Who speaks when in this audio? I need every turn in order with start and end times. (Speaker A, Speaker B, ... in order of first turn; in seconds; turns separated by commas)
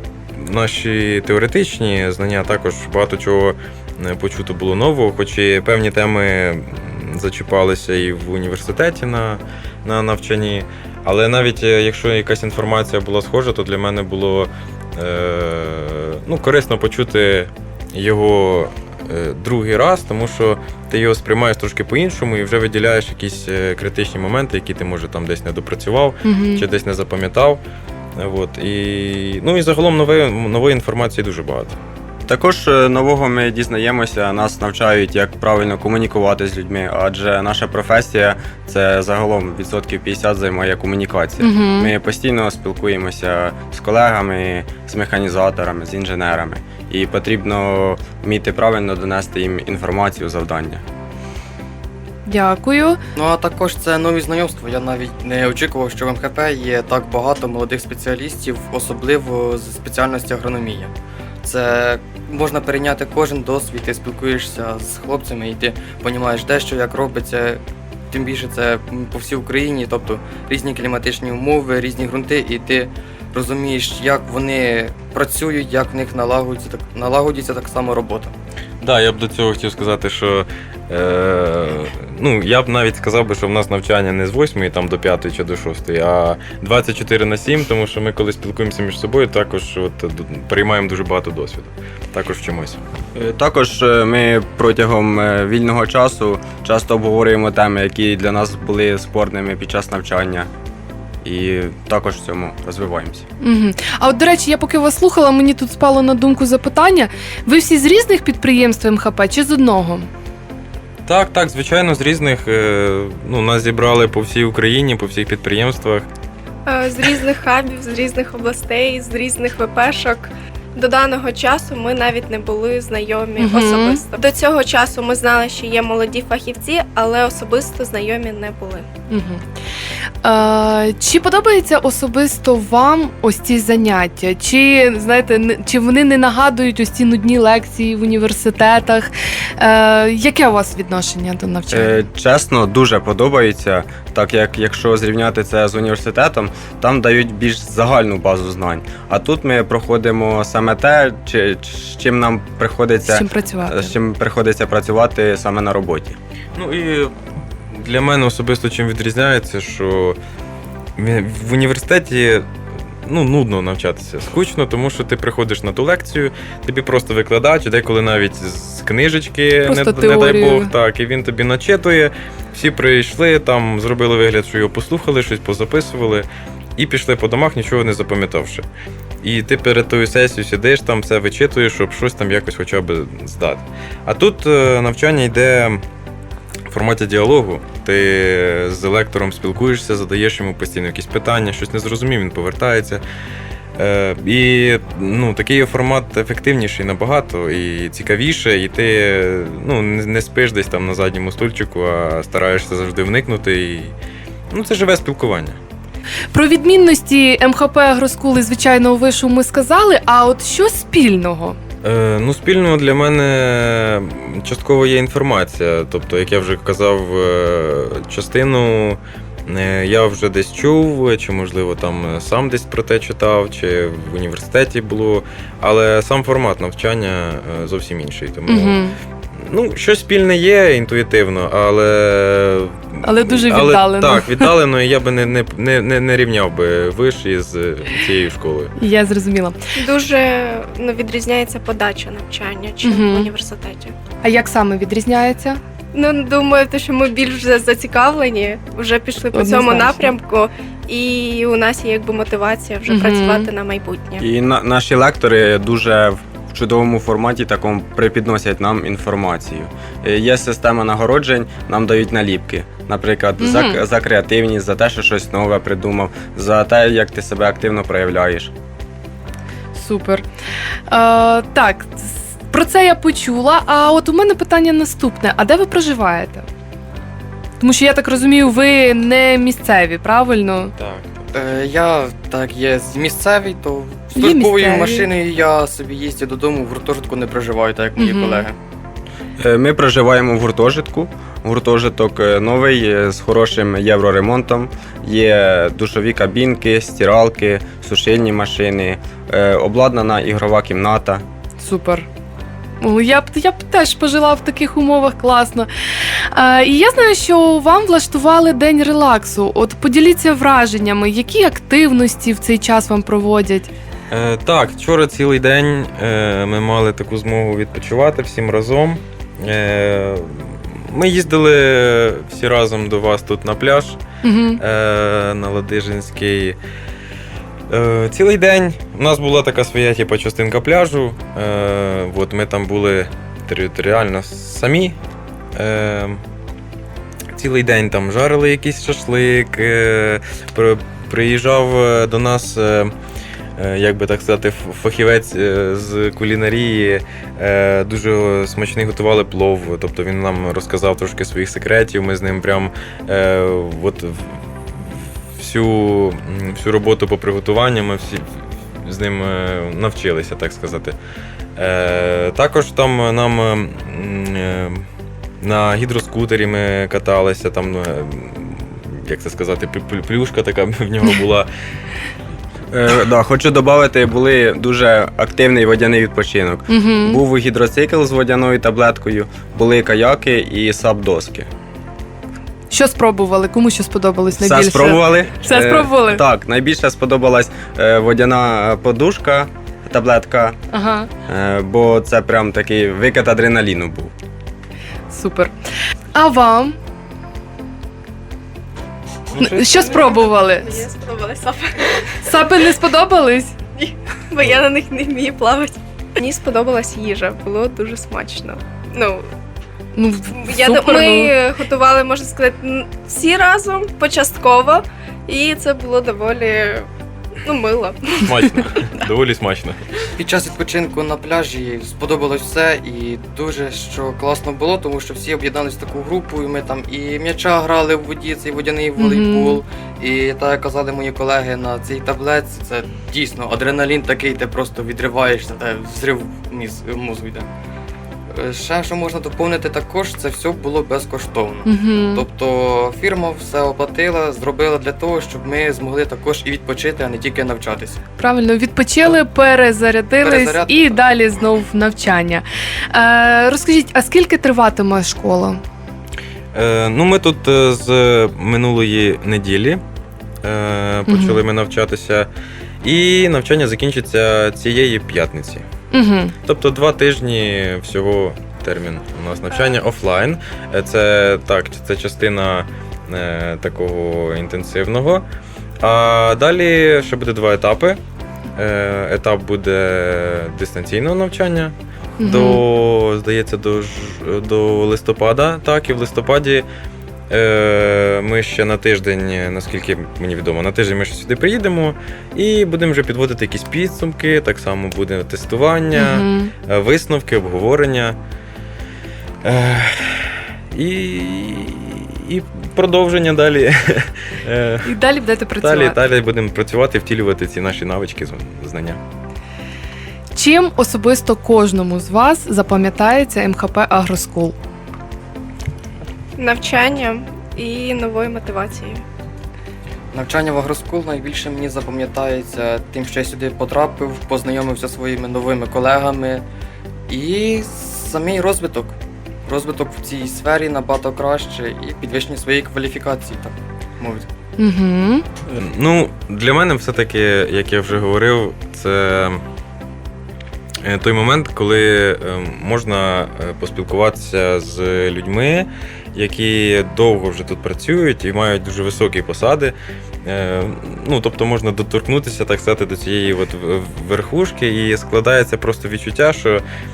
Speaker A: 0.4-27.6, Speaker B: 26.2-26.6, Speaker A: 28.2-31.8, Speaker C: 32.3-50.8, Speaker B: 41.4-41.9, Speaker B: 52.3-53.0, Speaker D: 53.2-60.9, Speaker D: 61.4-78.3, Speaker A: 78.8-92.8, Speaker C: 93.2-100.5, Speaker C: 101.2-103.2, Speaker B: 103.4-110.1, Speaker A: 111.1-116.1, Speaker E: 116.7-128.9, Speaker B: 123.4-124.0, Speaker B: 129.1-129.4, Speaker B: 130.2-142.0, Speaker C: 141.7-156.2, Speaker B: 153.1-153.9, Speaker A: 156.6-157.1, Speaker A: 157.7-160.2, Speaker A: 161.0-162.5, Speaker A: 163.1-178.7, Speaker B: 169.7-170.7, Speaker A: 179.2-185.8, Speaker A: 186.7-193.0, Speaker A: 193.8-203.9, Speaker A: 204.5-205.6, Speaker B: 206.3-211.6, Speaker A: 211.8-228.8, Speaker B: 228.5-229.0, Speaker A: 229.4-238.7, Speaker B: 233.0-234.5, Speaker B: 238.8-239.6, Speaker E: 239.8-243.9, Speaker B: 242.8-243.3, Speaker B: 244.2-245.6, Speaker E: 245.9-254.2, Speaker B: 249.3-250.1, Speaker B: 252.9-253.5, Speaker C: 254.2-268.5, Speaker B: 263.4-263.8, Speaker B: 269.7-270.2, Speaker B: 270.9-276.5, Speaker B: 277.6-280.7, Speaker A: 280.8-281.1, Speaker D: 281.3-288.6, Speaker B: 284.1-285.1, Speaker B: 288.0-288.5, Speaker C: 289.4-301.2, Speaker B: 301.6-302.1, Speaker B: 302.8-305.7, Speaker B: 306.3-313.7, Speaker A: 314.1-324.0, Speaker B: 324.2-324.6, Speaker A: 324.6-326.6, Speaker A: 327.7-335.0, Speaker A: 335.6-336.2, Speaker A: 337.3-342.9, Speaker A: 343.6-358.3, Speaker A: 358.8-361.0, Speaker A: 361.6-364.9, Speaker A: 365.4-371.5, Speaker C: 372.7-381.5, Speaker B: 376.7-377.2, Speaker B: 382.7-386.2, Speaker C: 384.4-390.6, Speaker B: 390.7-391.1, Speaker C: 391.3-394.1, Speaker B: 395.1-395.5, Speaker B: 396.1-396.8, Speaker A: 399.4-400.0, Speaker B: 399.4-400.8, Speaker E: 400.0-402.3, Speaker B: 402.2-403.6, Speaker E: 403.8-409.2, Speaker B: 410.0-411.3, Speaker E: 410.3-416.9, Speaker E: 417.4-418.4, Speaker A: 418.2-419.8, Speaker D: 420.2-437.5, Speaker B: 429.0-429.6, Speaker D: 438.3-448.0, Speaker B: 441.6-442.2, Speaker B: 448.2-455.6, Speaker D: 450.2-451.1, Speaker A: 456.5-459.8, Speaker A: 460.4-462.3, Speaker B: 461.1-461.5, Speaker A: 462.8-465.6, Speaker B: 465.9-466.3, Speaker A: 466.4-475.2, Speaker A: 475.8-478.0, Speaker A: 478.6-486.7, Speaker B: 482.2-482.6, Speaker A: 487.3-498.2, Speaker B: 495.9-496.5, Speaker A: 499.4-504.9, Speaker B: 504.8-506.0, Speaker A: 505.6-509.0, Speaker B: 510.3-514.6, Speaker E: 516.4-519.0, Speaker D: 520.1-526.5, Speaker D: 527.1-529.0, Speaker D: 529.5-534.3, Speaker B: 534.6-535.3, Speaker A: 535.6-539.4, Speaker A: 540.8-556.6